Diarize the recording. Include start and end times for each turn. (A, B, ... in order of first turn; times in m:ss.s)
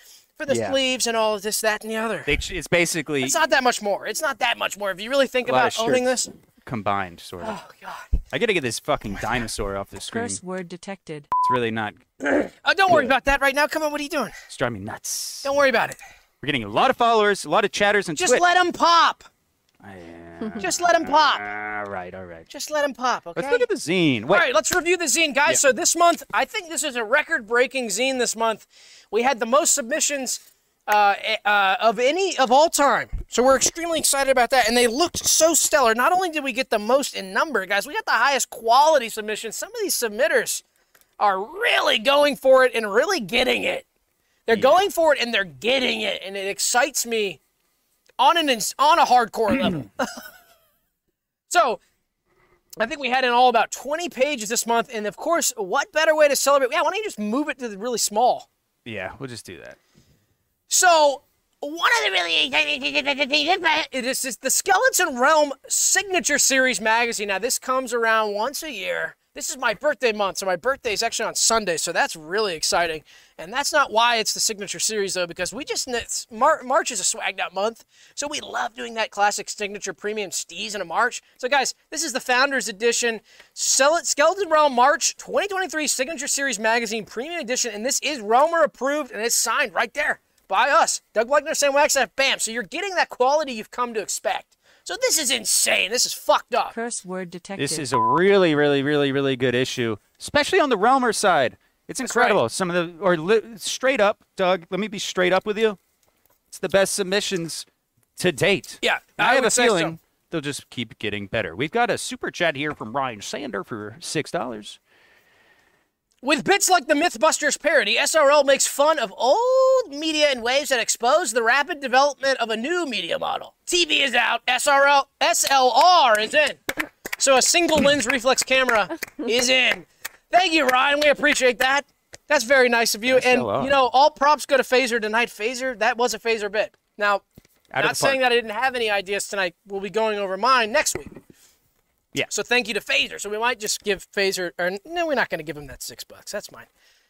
0:00.4-0:02.3 A
0:00.5-0:00.8 B
0:02.2-0:03.4 B
0:03.2-0:06.3 A
0:05.4-0:07.6 B
0:07.4-0:08.2 A
0:08.3-0:10.4 B
0:10.1-0:11.3 C
0:11.4-0:12.0 B
0:12.2-0:14.3 A
0:12.9-0:13.2 B
0:14.5-0:15.5 B
0:15.4-0:16.0 A
0:16.4-0:18.4 B
0:18.2-0:19.2 A
0:19.8-0:22.5 B
0:20.6-0:21.4 A
0:22.5-0:23.7 A
0:23.3-0:24.5 B
0:24.3-0:40.6 A
0:41.2-0:43.9 A
0:44.5-0:47.4 A
0:44.5-0:44.8 B
0:48.2-0:50.2 A
0:51.5-0:51.8 A
0:52.8-0:58.5 A
0:58.8-0:59.8 B
1:00.7-1:36.7 A
1:36.7-1:37.8 C
1:37.6-1:45.8 B
1:42.0-1:42.4 A
1:46.5-1:54.8 B
1:48.8-1:50.0 A
1:56.2-2:06.6 A
2:07.2-2:17.2 A
2:13.1-2:13.7 B
2:17.7-2:18.2 B
2:17.8-2:21.2 A
2:22.3-2:26.7 A